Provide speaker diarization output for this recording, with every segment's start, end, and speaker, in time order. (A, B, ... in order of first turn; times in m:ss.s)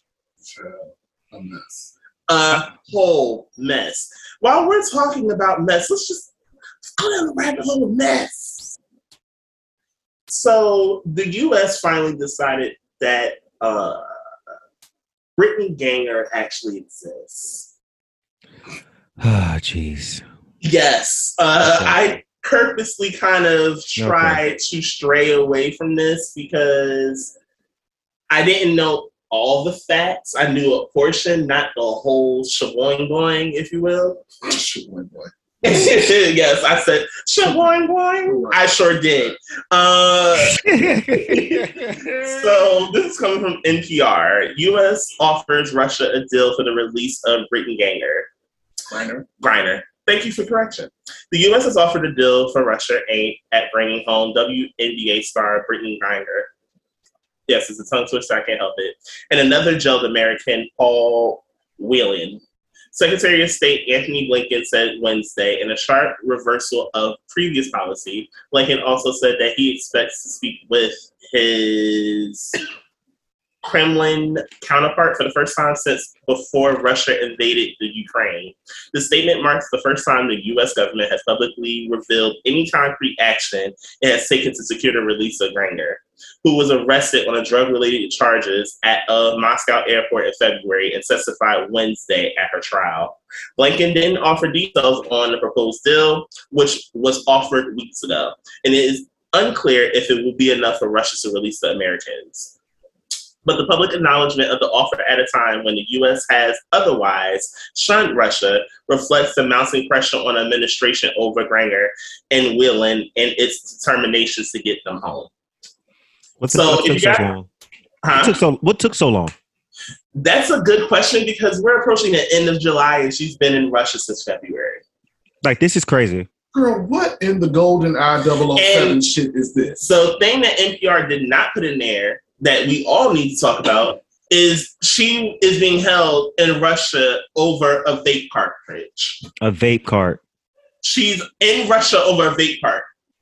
0:00.4-0:01.9 A
0:02.3-0:06.3 B
0:07.0-0:08.7 B
0:10.3-0:14.0 B
0:15.4-0:17.7 B
0:19.2-0:20.2 C
0:20.6-0:27.3 B
0:21.6-0:22.0 C
0:24.0-0:24.4 C
0:28.3-0:34.2 B
0:34.4-0:35.3 A
0:35.6-0:48.3 B
0:38.3-0:38.6 A
0:40.4-0:42.4 C
0:48.9-0:49.2 A
0:49.4-0:56.5 B
0:57.5-1:02.4 B
1:02.9-1:12.6 B
1:13.6-1:42.5 B
1:43.4-1:55.3 B
1:56.4-1:57.5 C
1:56.5-1:57.3 B
1:58.0-1:58.4 B
1:58.1-1:59.4 C
2:00.1-2:04.8 B
2:05.4-2:06.3 C
2:06.5-2:09.9 A
2:08.6-2:09.0 B
2:09.8-2:19.2 B
2:19.4-2:20.2 C
2:20.8-2:22.9 B